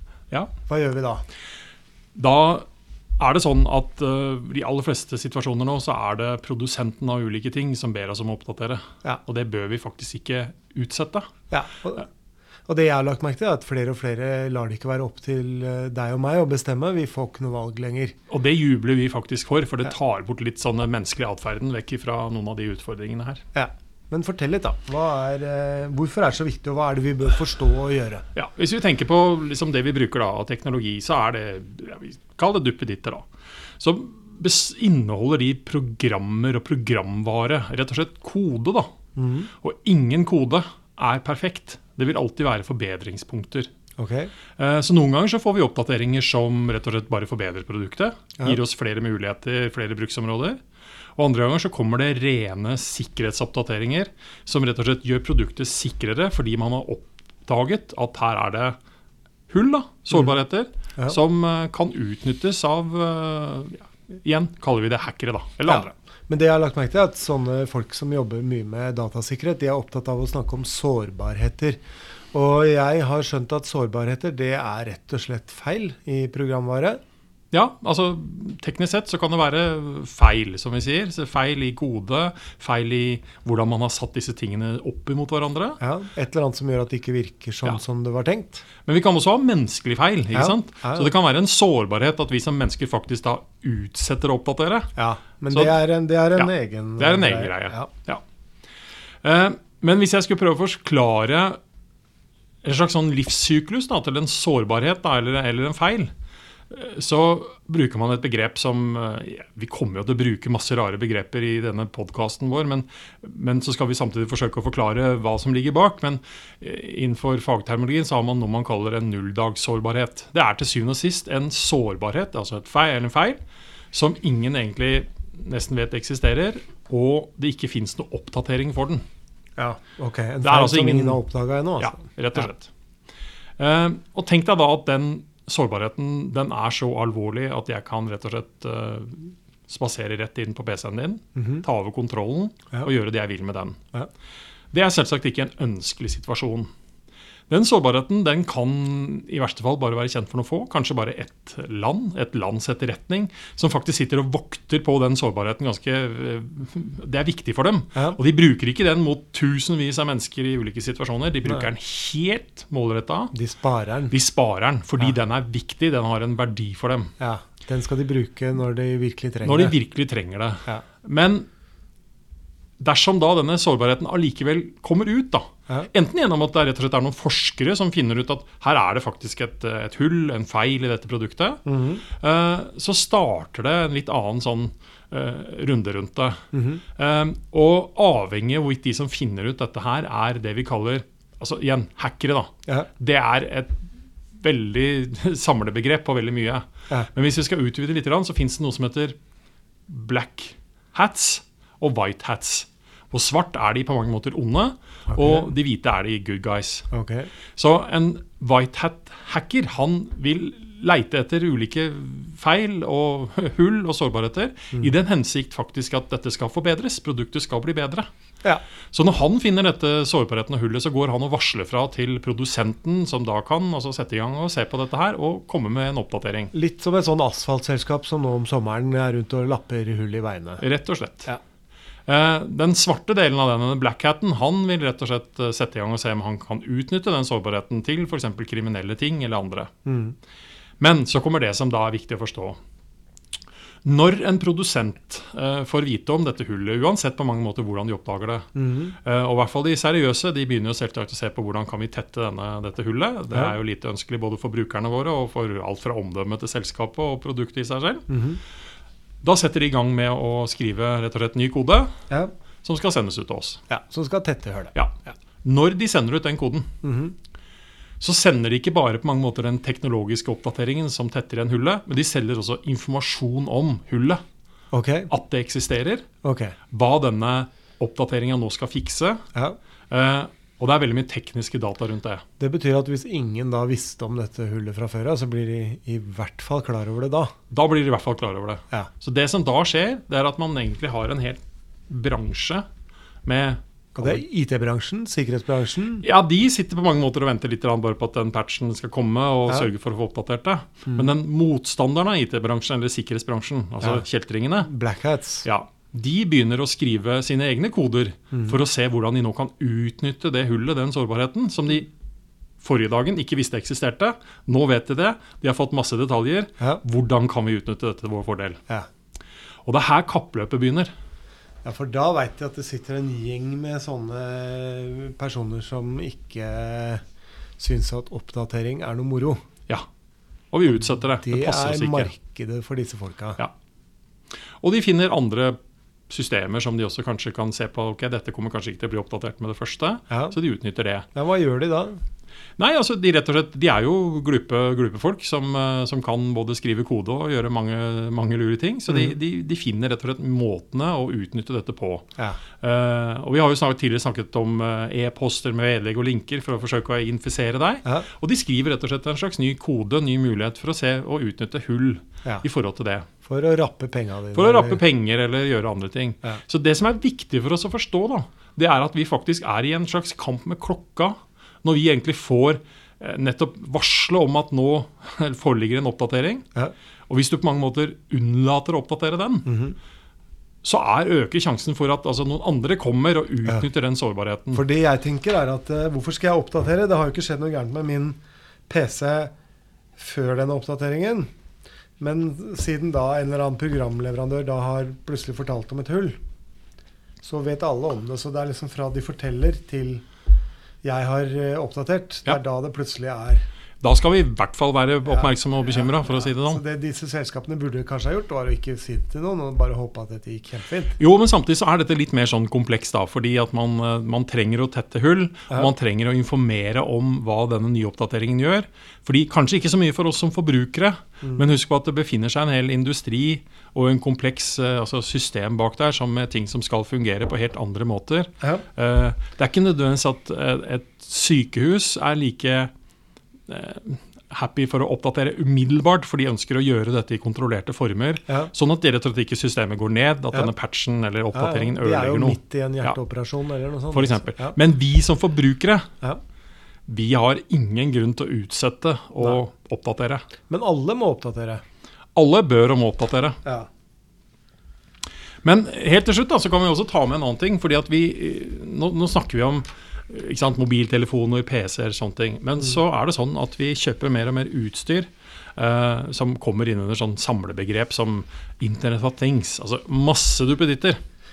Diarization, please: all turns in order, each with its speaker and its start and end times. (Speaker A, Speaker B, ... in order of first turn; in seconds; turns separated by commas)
Speaker A: 0.7-1.2, Speaker B: 2.1-2.6, Speaker B: 3.2-11.3, Speaker A: 11.5-12.1, Speaker A: 12.7-18.1, Speaker B: 18.3-23.4, Speaker A: 23.5-28.2, Speaker B: 28.3-33.3, Speaker B: 33.8-38.9, Speaker A: 39.1-39.5, Speaker B: 39.6-43.7, Speaker A: 44.0-44.3, Speaker B: 44.6-50.6, Speaker B: 51.2-58.8, Speaker B: 59.5-65.9, Speaker A: 65.7-71.8, Speaker A: 72.3-77.0, Speaker B: 77.5-85.8, Speaker A: 85.8-88.6, Speaker B: 88.8-94.9, Speaker A: 90.3-91.1, Speaker A: 95.0-97.9, Speaker B: 95.5-95.8, Speaker B: 96.3-98.2, Speaker B: 99.2-101.6, Speaker B: 102.6-106.1, Speaker B: 106.7-123.4, Speaker B: 123.9-129.0, Speaker A: 129.6-132.4, Speaker B: 130.4-131.2, Speaker B: 131.8-132.7, Speaker B: 133.6-143.8, Speaker A: 141.3-141.6, Speaker B: 144.7-146.7, Speaker B: 147.5-163.3, Speaker A: 163.3-164.1, Speaker B: 164.1-167.1, Speaker A: 167.2-169.8, Speaker B: 169.4-171.5, Speaker B: 172.8-181.6, Speaker A: 181.7-182.0, Speaker B: 182.2-186.4, Speaker A: 186.5-186.8, Speaker B: 186.9-193.8, Speaker B: 194.4-199.1, Speaker B: 199.9-206.9, Speaker A: 205.1-205.5, Speaker A: 206.9-207.3, Speaker B: 207.6-218.1, Speaker B: 218.9-226.5, Speaker A: 226.5-230.6, Speaker B: 230.6-231.3, Speaker B: 232.1-239.7, Speaker A: 239.8-240.1, Speaker B: 240.8-242.6, Speaker B: 243.8-248.5, Speaker A: 248.6-248.9, Speaker B: 249.0-258.1, Speaker A: 258.1-258.4, Speaker B: 259.2-261.9, Speaker B: 262.6-263.6, Speaker A: 263.7-264.7, Speaker B: 264.7-266.7, Speaker A: 266.8-267.1, Speaker B: 268.0-274.2, Speaker A: 274.7-275.1, Speaker B: 275.1-276.0, Speaker A: 276.2-276.5, Speaker B: 276.7-279.2, Speaker B: 279.9-282.2, Speaker A: 282.4-287.3, Speaker B: 287.5-292.6, Speaker B: 293.2-294.2, Speaker A: 293.9-296.0, Speaker B: 296.0-304.7, Speaker A: 304.6-305.4, Speaker B: 305.4-311.9, Speaker B: 312.6-318.6, Speaker B: 319.6-320.9, Speaker A: 321.6-327.0, Speaker A: 327.6-329.4, Speaker B: 330.5-332.1, Speaker A: 331.0-333.4, Speaker B: 334.6-335.6, Speaker B: 336.1-341.1, Speaker A: 340.1-340.4, Speaker A: 341.1-342.0, Speaker B: 342.6-352.1, Speaker B: 352.6-363.1, Speaker A: 363.2-364.8, Speaker B: 364.3-376.5, Speaker B: 377.1-379.5, Speaker A: 379.4-379.8, Speaker B: 380.6-384.6, Speaker A: 384.5-389.3, Speaker A: 390.0-391.3, Speaker A: 392.0-396.2, Speaker A: 397.2-400.0, Speaker A: 400.8-403.4, Speaker B: 403.8-406.6, Speaker A: 405.0-411.0, Speaker B: 411.0-432.7, Speaker B: 433.5-443.0, Speaker A: 441.3-444.6, Speaker B: 443.9-445.9, Speaker B: 446.9-450.2, Speaker A: 450.5-451.6, Speaker B: 452.1-453.4, Speaker B: 455.4-471.0